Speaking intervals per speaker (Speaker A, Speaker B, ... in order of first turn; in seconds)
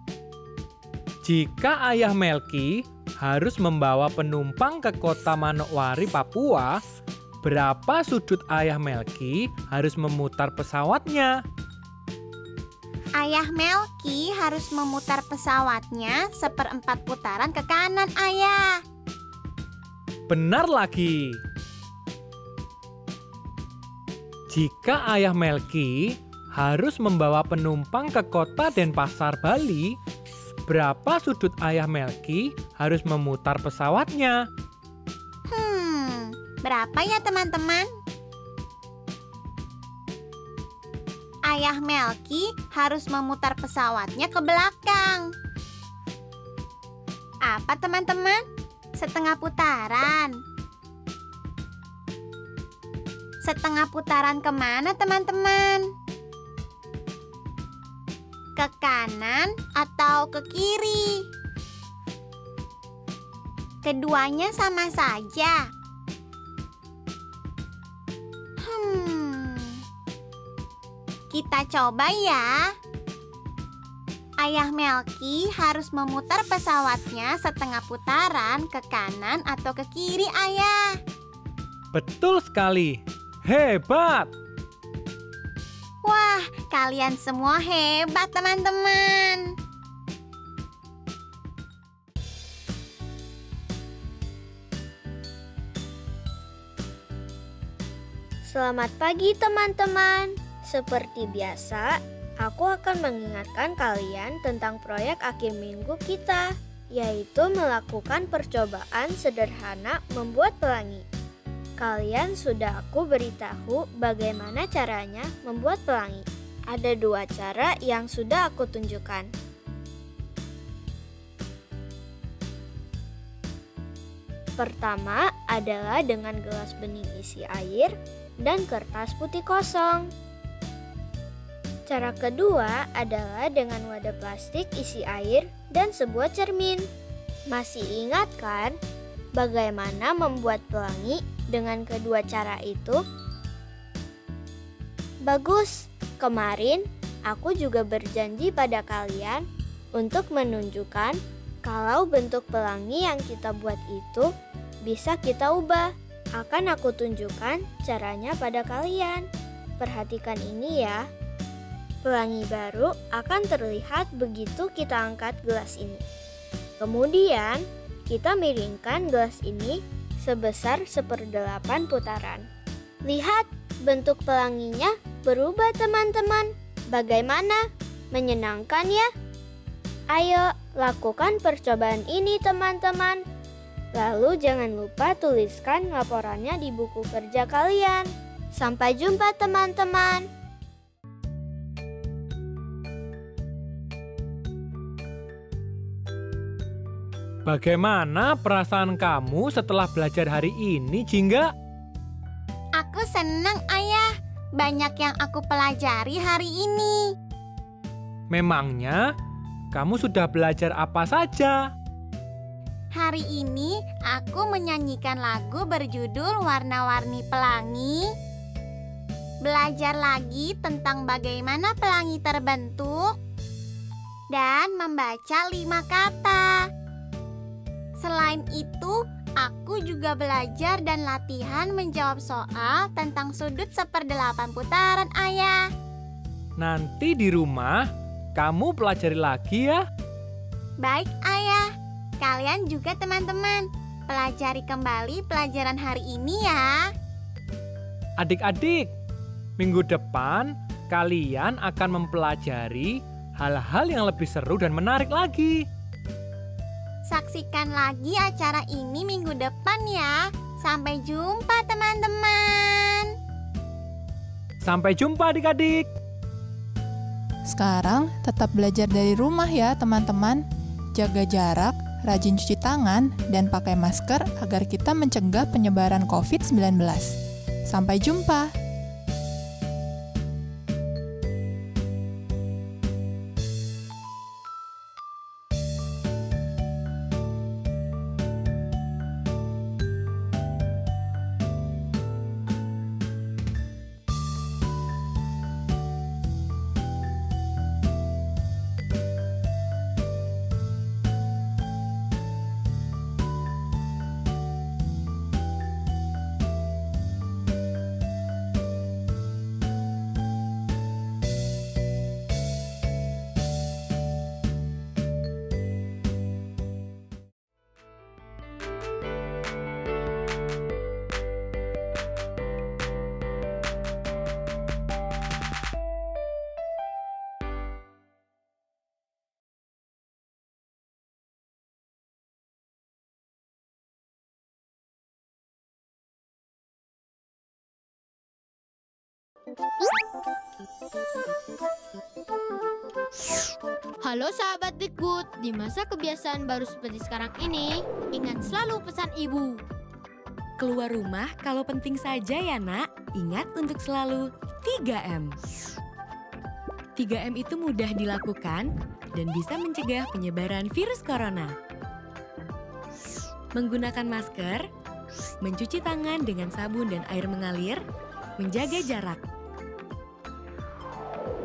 Speaker A: 1.2-6.8, 7.4-11.3, 20.3-21.4, 24.5-30.0, 30.7-34.4, 81.9-84.3, 197.5-201.5, 208.3-209.0, 209.7-211.6, 236.6-237.8, 238.4-239.8, 248.2-248.9, 249.6-255.6, 264.6-265.9
Speaker B: 13.2-18.7, 35.5-37.9, 41.5-45.3, 47.5-48.4, 49.0-50.3, 53.4-55.9, 58.6-61.1, 63.8-65.6, 68.6-69.8, 71.3-72.5, 74.4-80.8, 86.1-89.5, 202.8-204.1, 204.6-207.0, 213.0-218.1, 219.4-223.1, 224.3-226.6, 228.0-235.6, 240.8-241.7, 242.2-246.7, 257.1-263.1
Speaker C: 98.5-101.9, 102.4-111.0, 111.8-119.3, 124.6-130.1, 131.9-136.9, 137.5-138.8, 139.4-143.0, 145.3-149.4, 150.0-154.3, 154.9-159.2, 159.8-161.0, 162.1-166.0, 166.8-172.4, 173.1-177.6, 178.1-179.1, 180.1-183.2, 183.9-190.3
Speaker D: 267.5-270.4, 270.9-277.2, 277.7-278.5
Speaker E: 344.0-349.6
Speaker F: 350.6-355.4, 357.0-361.5, 363.6-364.6, 365.4-367.8, 368.4-369.2